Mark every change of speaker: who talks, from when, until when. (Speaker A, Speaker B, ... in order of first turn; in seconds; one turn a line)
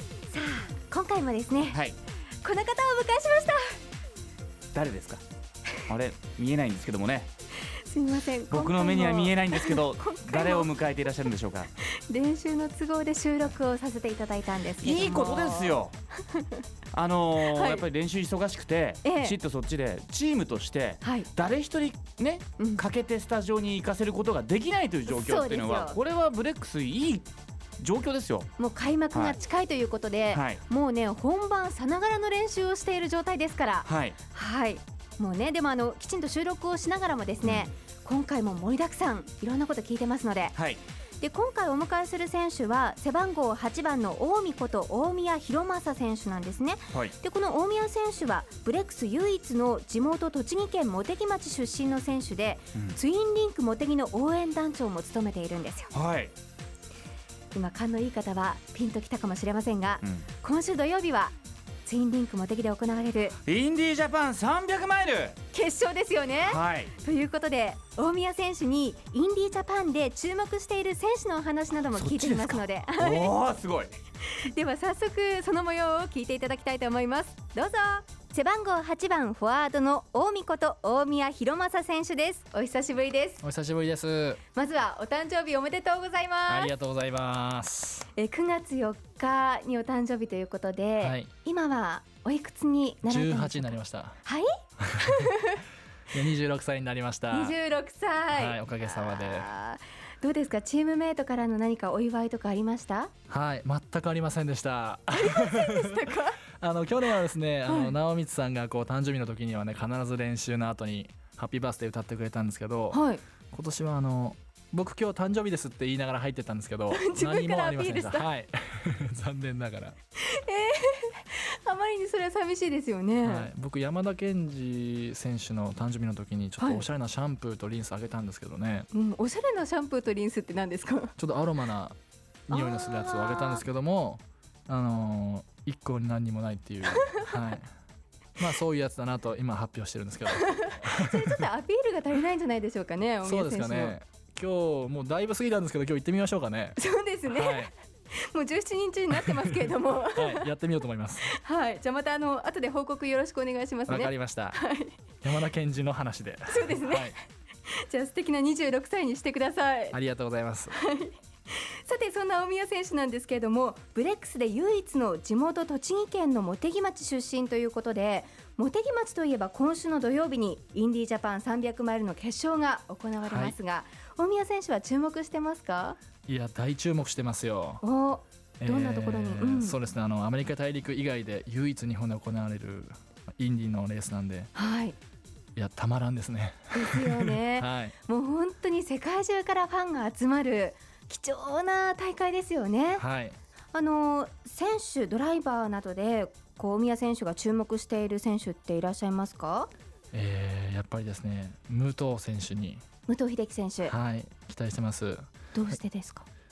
Speaker A: 0.3-1.8
Speaker A: 2.4-3.6
Speaker B: 4.7-5.2
Speaker B: 5.9-7.3
Speaker A: 7.7-10.7
Speaker B: 8.5-11.7
Speaker A: 11.8-16.6
Speaker B: 14.8-15.9
Speaker B: 16.9-27.3
Speaker A: 17.4-17.8
Speaker A: 19.0-19.4
Speaker A: 21.0-21.3
Speaker A: 25.1-26.0
Speaker B: 27.8-28.5
Speaker A: 28.6-40.5
Speaker B: 30.3-30.6
Speaker B: 33.9-34.2
Speaker B: 37.4-37.7
Speaker B: 40.6-40.8
Speaker A: 41.2-55.9
Speaker B: 55.9-56.3
Speaker A: 57.5-61.3
Speaker A: 61.9-63.4
Speaker B: 63.5-65.4
Speaker A: 65.5-73.3
Speaker B: 66.4-66.9
Speaker B: 72.0-73.9
Speaker A: 74.2-83.4
Speaker C: 83.4-84.4
Speaker A: 84.5-86.7
Speaker C: 86.5-88.1
Speaker A: 88.2-95.6
Speaker C: 91.0-91.3
Speaker C: 93.0-94.2
Speaker C: 94.8-95.3
Speaker C: 96.1-97.6
Speaker A: 97.3-103.1
Speaker C: 98.3-99.5
Speaker C: 103.3-120.0
Speaker A: 105.1-106.4
Speaker A: 107.7-107.9
Speaker A: 112.9-113.2
Speaker A: 116.9-118.3
Speaker A: 120.2-123.5
Speaker C: 123.2-128.9
Speaker A: 126.6-126.8
Speaker A: 128.9-131.1
Speaker C: 131.2-132.0
Speaker C: 132.5-137.7
Speaker A: 132.5-133.7
Speaker C: 138.4-141.5
Speaker A: 140.3-144.0
Speaker C: 143.2-147.7
Speaker A: 146.8-150.5
Speaker C: 149.1-151.3
Speaker A: 151.2-154.9
Speaker C: 153.9-154.6
Speaker C: 155.2-157.2
Speaker A: 156.5-157.2
Speaker A: 157.7-160.0
Speaker C: 159.9-160.8
Speaker A: 160.7-161.2
Speaker A: 161.8-176.0
Speaker C: 173.2-173.6
Speaker C: 176.3-177.8
Speaker A: 177.8-179.8
Speaker C: 178.6-184.5
Speaker A: 184.5-185.0
Speaker C: 185.6-187.9
Speaker A: 186.7-193.0
Speaker C: 193.0-193.4
Speaker A: 193.7-199.7
Speaker C: 200.1-202.8
Speaker A: 203.1-203.9
Speaker C: 203.8-205.3
Speaker A: 205.5-206.3